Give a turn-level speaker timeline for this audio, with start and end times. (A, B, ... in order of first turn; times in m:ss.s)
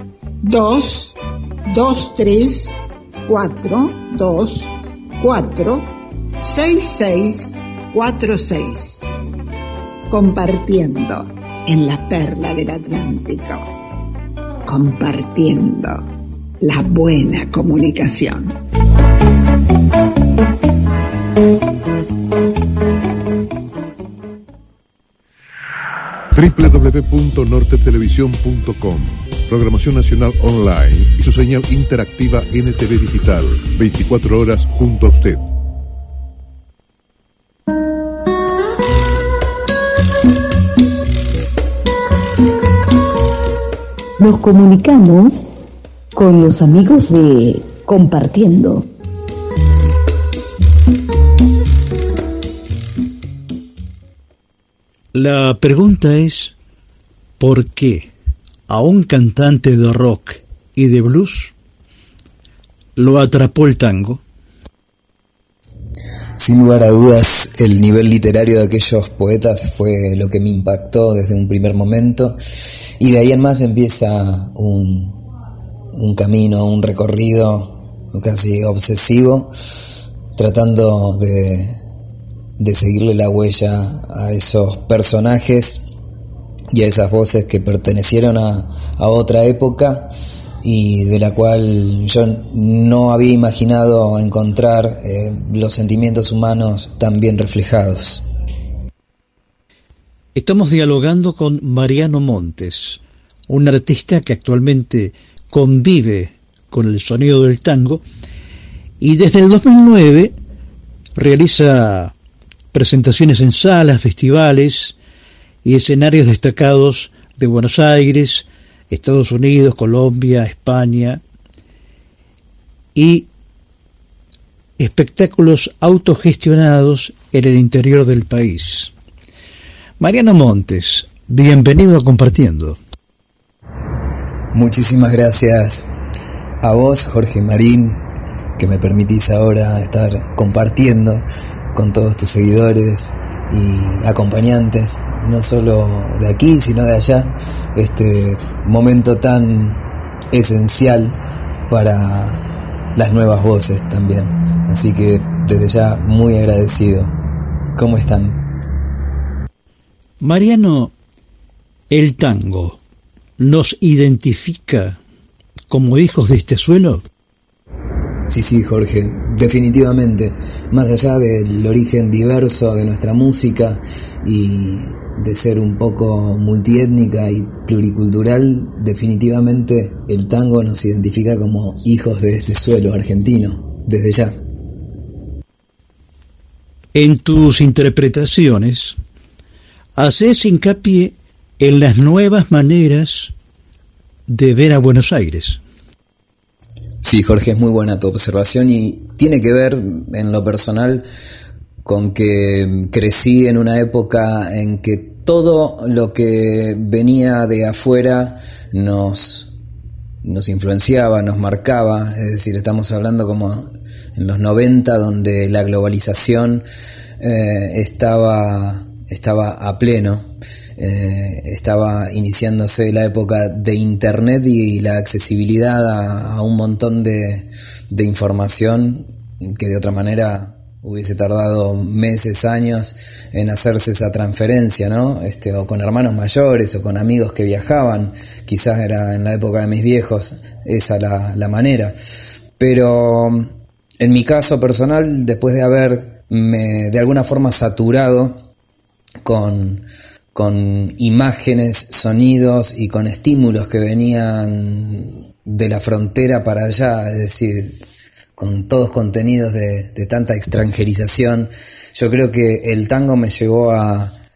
0:00.4-0:01.2 A
0:01.7-0:02.8 A
0:03.3-0:05.9 A
0:06.4-0:09.0 A
0:10.1-0:13.7 A
0:14.7-0:16.0 A
0:16.6-0:18.6 A
0:26.4-0:35.4 B
0:44.2-0:45.4 C
0:46.2-0:48.8 C
0:55.1-0:56.6 D
0:57.4-0:58.1 D
0:58.7-1:01.5 D
1:03.0-1:04.2 D
1:06.4-1:12.4 E
1:13.0-1:15.2 E
1:15.9-1:19.5 E
1:20.4-1:21.8 E
1:22.6-1:25.9 E
1:26.7-1:30.1 E
1:30.6-1:38.2 E
1:40.4-1:48.0 D
1:49.0-1:50.3 D
1:51.2-1:52.1 D
1:52.7-1:55.0 D
1:55.6-2:01.2 D
2:03.0-2:03.3 D
2:04.8-2:08.9 D
2:10.0-2:12.8 D
2:14.5-2:15.9 E
2:16.6-2:18.0 E
2:18.6-2:31.2 E
2:31.7-2:32.4 E
2:33.0-2:37.2 E
2:37.8-2:38.4 E
2:40.2-2:40.9 D
2:41.9-2:42.8 D
2:43.4-2:45.0 D
2:45.7-2:47.0 D
2:48.3-3:04.4 E
3:07.0-3:09.0 D
3:10.0-3:13.3 D
3:14.3-3:15.6 D
3:17.0-3:21.0 E
3:21.8-3:29.5 E
3:30.2-3:36.6 E
3:37.2-4:02.0 E
4:02.6-4:08.4 E
4:09.2-4:17.7 E
4:18.4-4:24.1 E